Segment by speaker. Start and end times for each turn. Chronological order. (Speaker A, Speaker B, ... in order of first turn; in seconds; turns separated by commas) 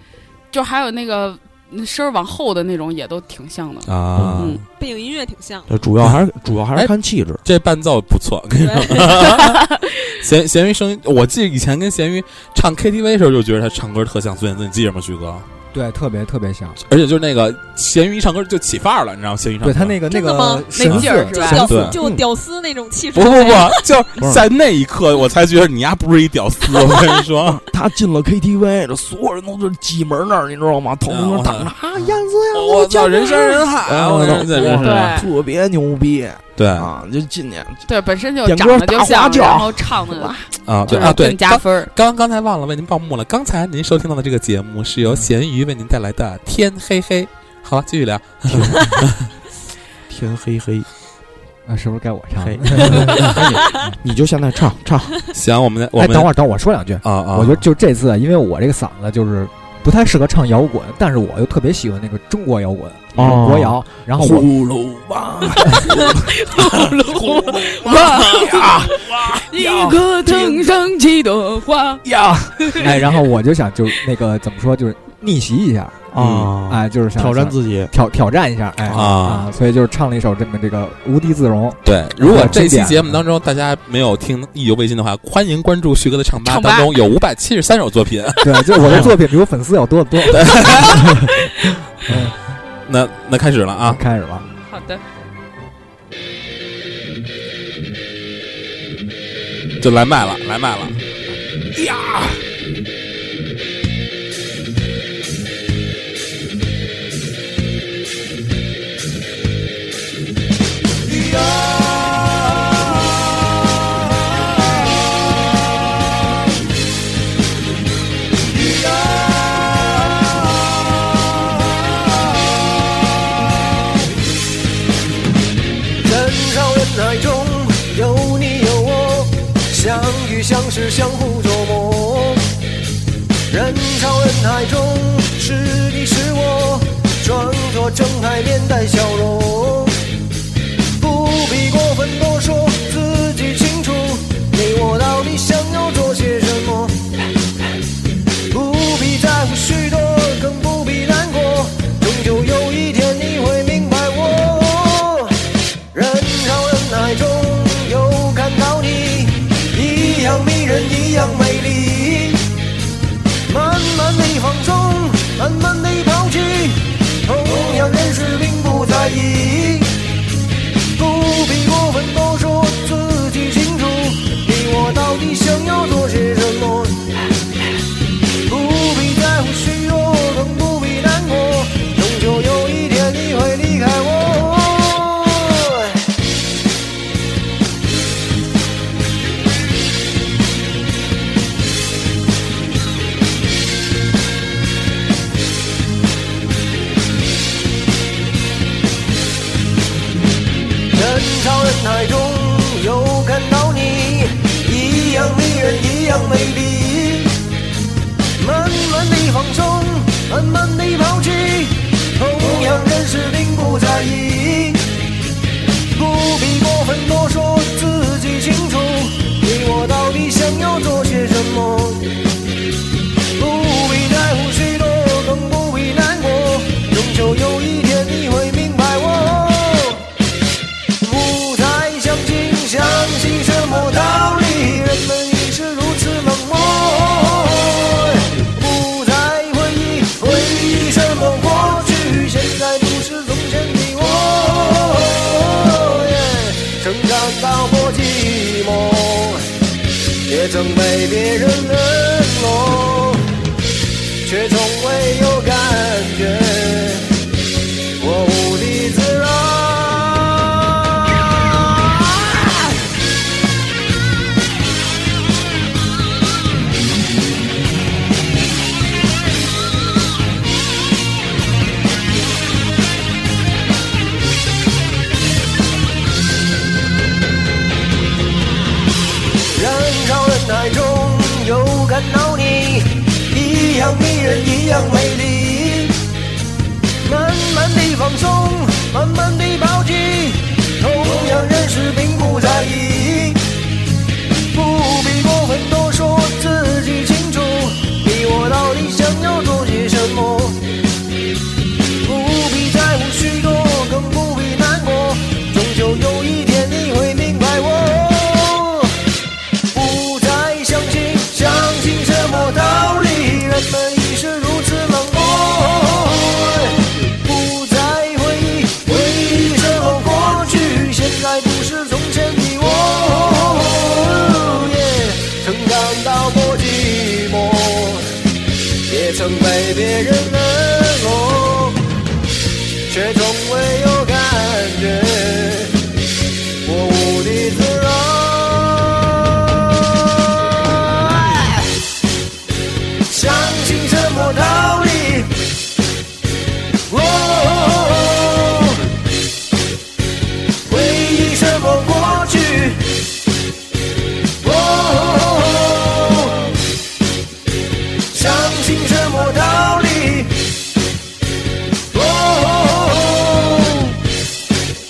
Speaker A: 0.5-4.6, Speaker B: 3.9-4.6, Speaker C: 4.1-4.4, Speaker D: 4.7-5.7, Speaker C: 5.7-7.4, Speaker B: 7.4-15.5, Speaker D: 8.5-9.3, Speaker E: 15.7-16.8, Speaker B: 16.8-20.0, Speaker E: 19.6-21.6, Speaker D: 20.1-24.0, Speaker A: 20.7-21.8, Speaker B: 21.6-22.0, Speaker C: 21.9-22.2, Speaker B: 23.1-27.6, Speaker C: 24.2-24.5, Speaker C: 27.4-37.9, Speaker B: 31.1-35.1, Speaker A: 34.8-35.3, Speaker B: 36.5-36.9, Speaker A: 37.9-41.9, Speaker C: 38.4-41.2, Speaker B: 40.6-49.3, Speaker C: 48.5-49.1, Speaker C: 50.1-50.9, Speaker E: 51.6-54.0, Speaker C: 52.4-55.3, Speaker B: 55.3-56.3, Speaker E: 55.9-64.5, Speaker B: 57.0-57.6, Speaker C: 63.1-70.8, Speaker A: 65.9-72.0, Speaker C: 72.0-72.9, Speaker E: 72.8-76.0, Speaker C: 76.1-77.9, Speaker B: 76.2-76.5, Speaker E: 76.7-83.2, Speaker C: 78.8-79.4, Speaker B: 78.9-79.5, Speaker B: 81.8-89.2, Speaker A: 86.4-86.9, Speaker E: 88.4-91.3, Speaker B: 90.3-91.3, Speaker E: 92.0-92.3, Speaker B: 92.8-94.0, Speaker E: 93.8-94.5, Speaker A: 94.7-95.0, Speaker B: 99.8-101.0, Speaker C: 101.7-102.4, Speaker F: 111.0-112.8, Speaker F: 118.5-120.4, Speaker F: 126.0-132.4, Speaker F: 133.5-140.0, Speaker F: 141.0-147.0, Speaker F: 148.5-155.4, Speaker F: 155.9-162.4, Speaker F: 163.5-169.9, Speaker F: 170.9-177.0, Speaker F: 178.4-186.0, Speaker F: 200.9-207.3, Speaker F: 208.4-214.8, Speaker F: 215.9-222.1, Speaker F: 223.3-230.1, Speaker F: 231.0-249.4, Speaker F: 250.3-253.2, Speaker F: 254.2-257.1, Speaker F: 258.0-262.2, Speaker F: 279.5-285.9, Speaker F: 287.0-293.4, Speaker F: 294.5-300.6, Speaker F: 302.0-308.9, Speaker F: 309.7-328.1, Speaker F: 328.9-331.8, Speaker F: 332.9-335.8, Speaker F: 336.6-341.7, Speaker F: 343.1-345.4, Speaker F: 346.9-348.8, Speaker F: 350.6-352.9, Speaker F: 354.4-356.5, Speaker F: 358.1-360.3, Speaker F: 361.9-364.0